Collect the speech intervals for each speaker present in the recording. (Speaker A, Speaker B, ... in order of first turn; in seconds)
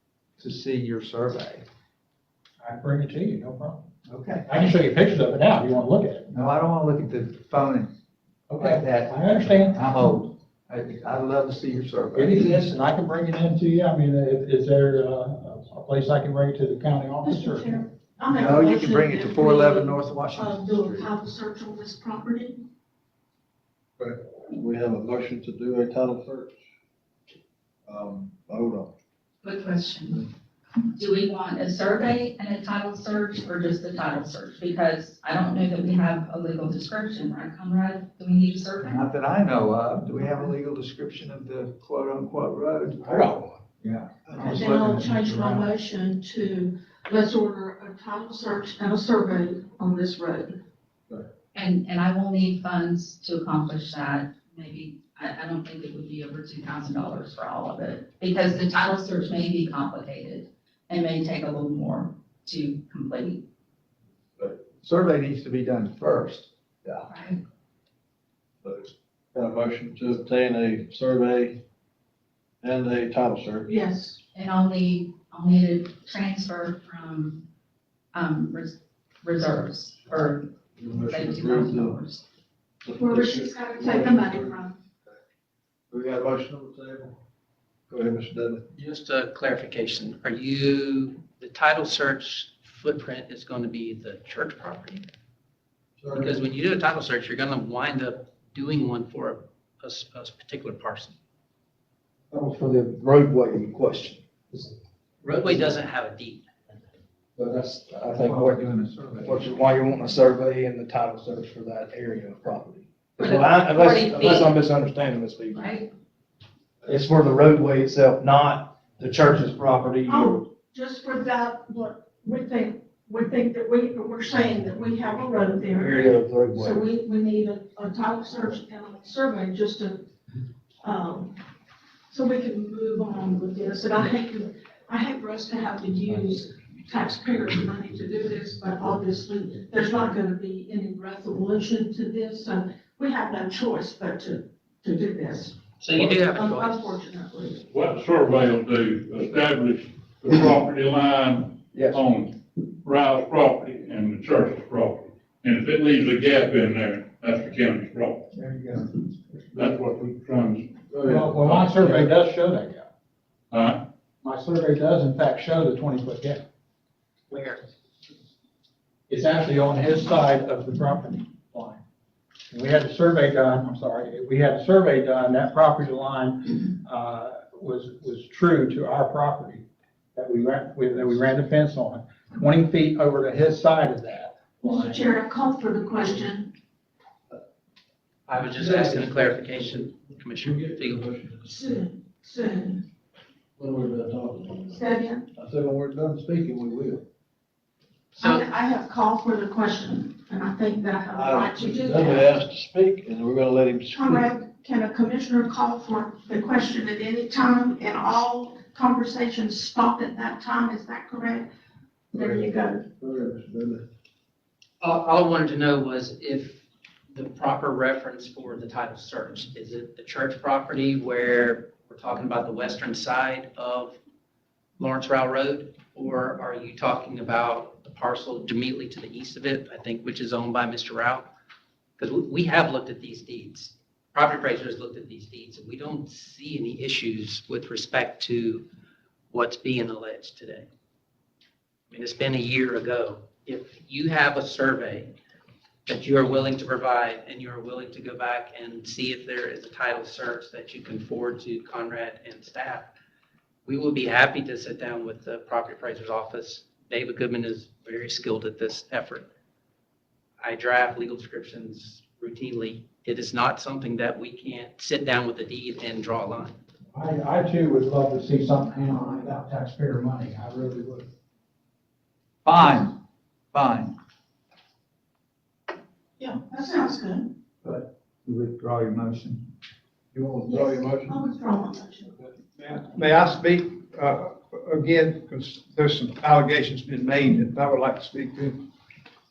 Speaker A: 0.4-1.6, 4.1-4.5, 6.3-7.9, 8.6-12.7, 18.3-21.1, 38.8-45.7, 64.8-67.1, 108.0-109.5, 272.4-272.9, 273.5-273.9, 277.6-279.4
Speaker B: 2.6-3.9, 4.5-6.3, 8.5-10.0, 12.2-17.8, 161.1-162.9, 164.2-166.4, 167.3-167.7, 169.1-171.8, 172.5-185.1, 266.9-271.1
Speaker C: 17.2-22.6, 44.4-50.5, 73.7-74.2, 83.0-84.8, 120.1-126.1, 126.6-130.0, 130.8-131.4, 132.1-147.6, 184.6-186.5, 191.4-192.8, 194.7-195.3, 198.2-202.3, 203.9-211.5, 212.1-212.9, 276.2-277.3, 280.5-282.1
Speaker D: 24.0-26.6, 27.9-28.9, 68.6-71.6, 72.6-73.7, 80.8-82.0, 82.8-84.6, 85.9-87.2, 87.9-88.6, 96.0-96.4, 160.9-162.1, 188.5-191.4, 193.6-194.8, 195.4-197.0, 201.1-204.3, 212.1-213.8, 280.1-281.2
Speaker E: 29.4-30.3, 30.9-39.0, 51.5-63.4, 67.1-67.4, 74.3-77.4, 78.1-82.2, 113.2-114.6, 115.5-115.9
Speaker F: 88.8-95.1, 96.1-101.2, 105.2-106.5, 145.8-146.9, 188.3-191.1, 198.2-198.4, 214.8-224.0, 224.8-231.3, 232.0-238.7, 239.3-240.7, 241.9-245.1, 245.9-252.9, 253.7-259.3, 260.4-266.6
Speaker G: 102.3-104.7, 107.4-115.7, 116.8-120.5, 125.6-126.9
Speaker H: 147.7-158.3, 159.5-160.8, 161.4-161.7, 163.5-163.8
Speaker I: 282.5-288.6